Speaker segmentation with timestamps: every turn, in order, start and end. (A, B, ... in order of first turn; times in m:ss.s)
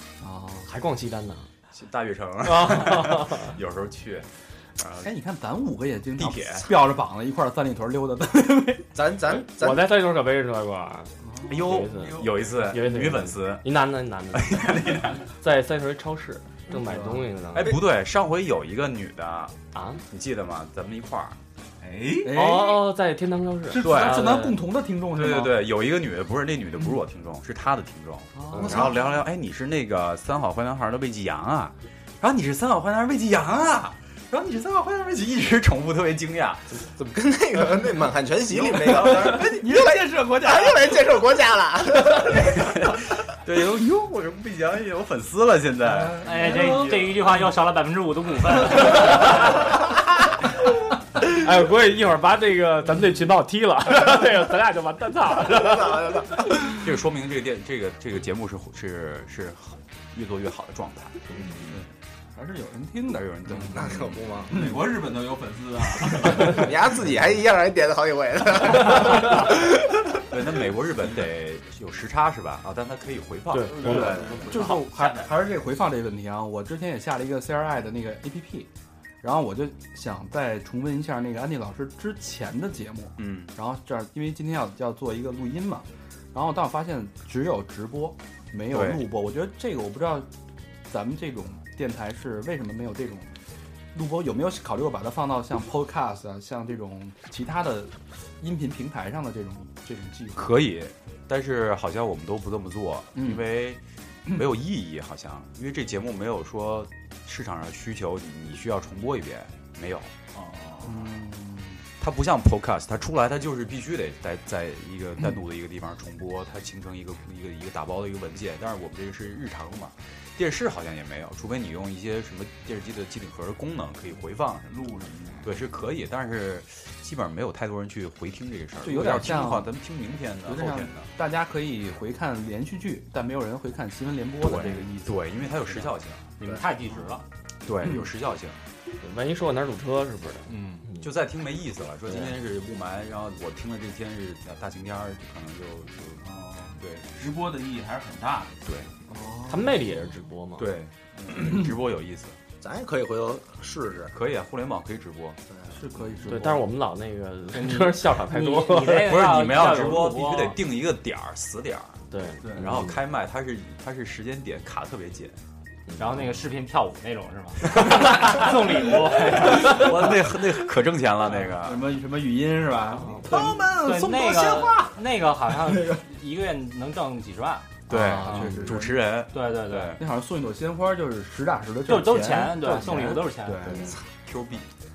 0:00.2-0:00.7 A
0:00.6-0:01.5 B
0:01.7-0:05.1 C
0:02.5-0:03.6 B
0:05.0-0:08.9 A
0:06.2-0:06.7 C
0:08.9-0:09.9 D
0:09.4-0:17.8 B
0:11.2-0:11.6 A
0:11.5-0:13.7 C
0:11.7-0:12.6 E
0:14.3-0:15.2 C
0:16.7-0:17.3 A
0:17.5-0:21.4 C
0:19.7-0:20.0 B
0:21.8-0:22.4 E
0:22.2-0:22.9 A
0:22.3-0:24.6 B
0:23.7-0:25.6 A
0:23.7-0:24.3 C
0:25.1-0:36.8 C
0:28.4-0:28.9 A
0:28.5-0:29.1 D
0:37.0-0:42.6 D
0:38.6-0:39.5 C
0:39.0-0:40.9 A
0:42.4-0:47.1 C
0:46.1-0:46.9 A
0:46.2-0:49.6 F
0:51.2-0:56.7 B
0:55.6-0:56.4 D
0:56.8-1:01.4 C
1:01.3-1:01.7 D
1:02.4-1:03.8 A
1:03.1-1:04.2 C
1:03.6-1:04.6 D
1:04.5-1:06.7 E
1:06.4-1:09.7 D
1:10.3-1:14.4 C
1:13.5-1:14.2 B
1:13.7-1:15.3 E
1:14.1-1:14.3 D
1:14.5-1:18.7 A
1:19.2-1:30.3 A
1:23.2-1:23.5 C
1:28.7-1:29.1 C
1:30.9-1:33.3 A
1:33.9-1:40.5 A
1:40.4-1:50.1 C
1:43.2-1:43.4 A
1:50.3-1:51.1 E
1:50.8-1:51.8 A
1:52.0-2:04.8 C
2:04.7-2:05.6 E
2:05.4-2:11.1 C
2:08.8-2:09.7 A
2:10.4-2:15.2 A
2:14.4-2:16.2 C
2:16.4-2:17.2 F
2:17.6-2:18.6 C
2:19.0-2:21.1 B
2:21.0-2:26.2 C
2:22.1-2:22.4 B
2:26.2-2:28.6 E
2:26.8-2:27.2 C
2:28.6-2:28.9 C
2:29.1-2:29.8 A
2:29.5-2:30.7 B
2:30.6-2:32.4 C
2:32.6-2:34.1 D
2:34.1-2:35.4 C
2:35.5-2:35.8 D
2:35.7-2:36.6 A
2:36.3-2:39.2 B
2:37.5-2:40.6 F
2:39.0-2:42.0 C
2:42.1-2:43.0 B
2:42.6-2:45.4 C
2:45.9-2:46.2 B
2:46.0-2:50.1 F
2:49.5-2:51.8 C
2:51.6-2:54.9 A
2:53.8-2:57.7 F
2:57.9-3:00.0 C
2:57.9-2:59.0 A
2:59.3-3:00.0 F
3:00.0-3:04.0 A
3:01.9-3:03.8 F
3:04.2-3:04.7 C